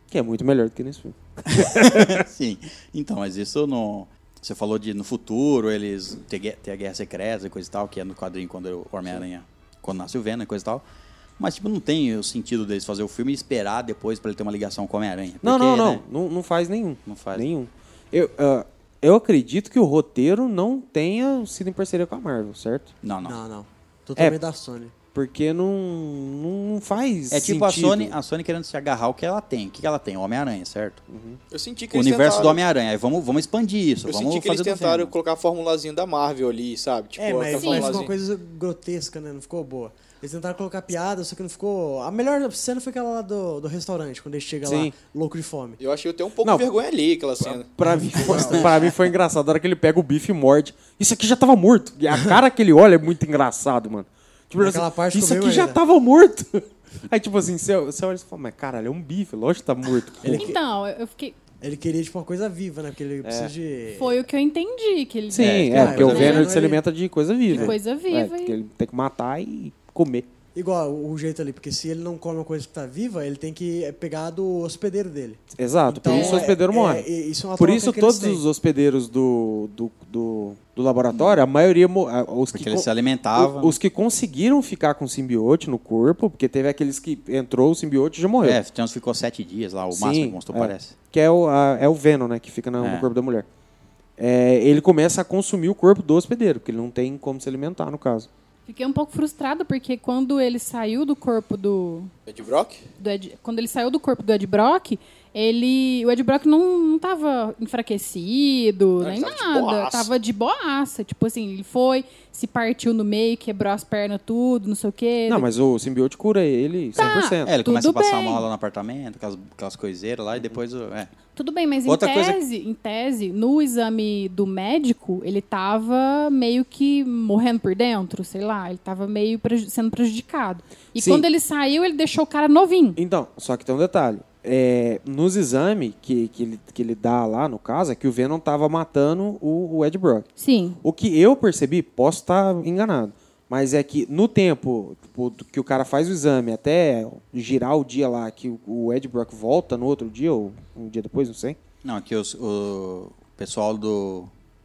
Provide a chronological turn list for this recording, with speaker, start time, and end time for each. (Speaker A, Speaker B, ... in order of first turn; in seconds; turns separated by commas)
Speaker A: 0.1-2.2, Speaker B: 1.5-10.8, Speaker B: 11.4-16.0, Speaker A: 15.4-22.9, Speaker B: 17.1-17.5, Speaker B: 23.0-23.4, Speaker C: 23.2-24.9, Speaker A: 25.1-28.1, Speaker B: 27.3-31.0, Speaker A: 31.1-31.4, Speaker D: 31.5-32.6, Speaker B: 31.9-35.1, Speaker D: 34.1-38.1, Speaker C: 37.2-45.8, Speaker E: 37.5-38.0, Speaker A: 44.6-44.9, Speaker D: 45.8-47.7, Speaker A: 46.4-46.7, Speaker A: 47.4-60.5, Speaker C: 47.9-48.9, Speaker C: 54.6-55.8, Speaker C: 60.2-60.6, Speaker E: 60.3-61.4, Speaker C: 61.6-64.2, Speaker A: 63.2-63.5, Speaker E: 63.9-66.5, Speaker A: 65.3-70.3, Speaker B: 65.4-66.5, Speaker C: 65.7-66.8, Speaker C: 67.5-67.7, Speaker E: 67.5-68.6, Speaker C: 70.5-78.4, Speaker A: 75.6-88.6, Speaker E: 76.1-76.4, Speaker B: 81.1-81.4, Speaker B: 82.5-83.8, Speaker B: 88.4-90.9, Speaker A: 89.9-93.5, Speaker B: 92.8-93.1, Speaker A: 94.2-98.3, Speaker E: 98.7-102.1, Speaker D: 102.3-102.8, Speaker E: 103.0-115.5, Speaker D: 109.0-110.1, Speaker A: 115.3-117.5, Speaker E: 117.0-118.4, Speaker B: 117.0-121.1, Speaker E: 121.3-133.0, Speaker B: 121.8-122.4, Speaker A: 130.9-131.2, Speaker A: 132.9-140.3, Speaker E: 140.4-140.8, Speaker A: 140.8-151.6, Speaker B: 151.8-154.3